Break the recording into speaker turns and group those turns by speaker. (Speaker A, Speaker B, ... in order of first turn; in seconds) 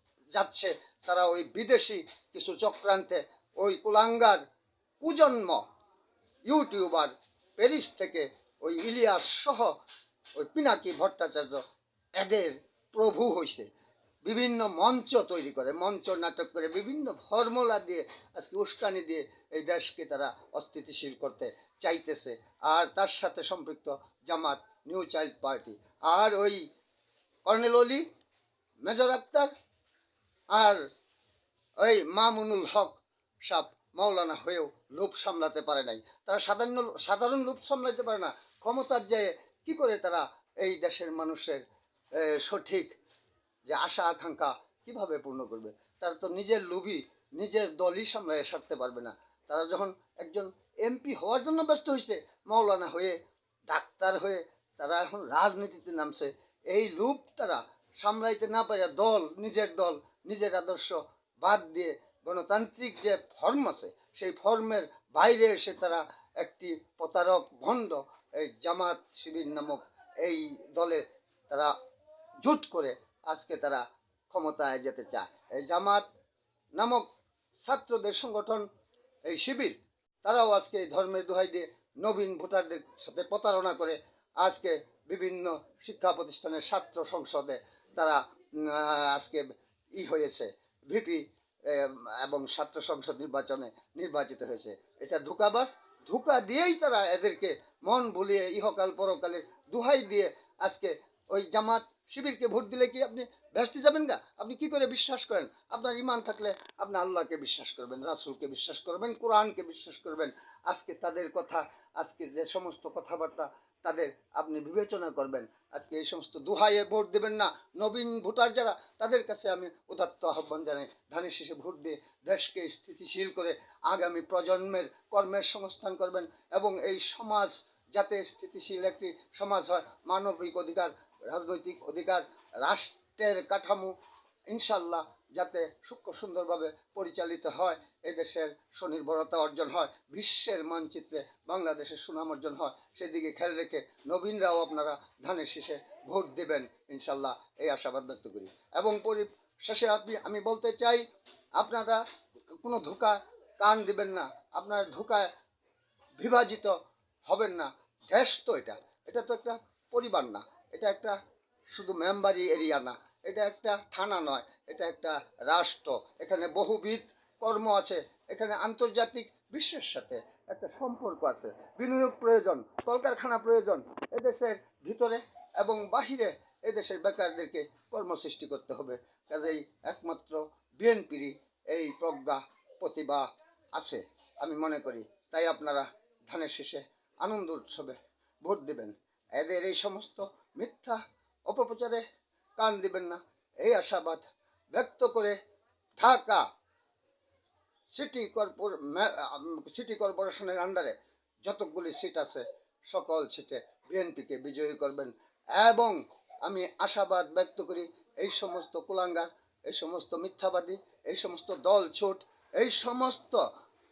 Speaker A: 0.3-4.4, 5.0-5.6, 6.5-9.7, 10.3-11.6, 12.2-13.7, 14.2-26.6, 27.4-28.0, 28.8-29.5, 30.5-30.8, 31.8-41.6, 42.1-42.9, 43.6-53.2, 53.7-71.7, 72.4-76.0, 76.7-77.1, 77.6-78.6, 79.2-133.9, 134.5-151.0, 151.6-152.0, 152.6-155.3, 156.2-156.7, 157.3-161.2, 161.7-192.0, 192.6-195.4, 196.0-196.4, 197.9-213.4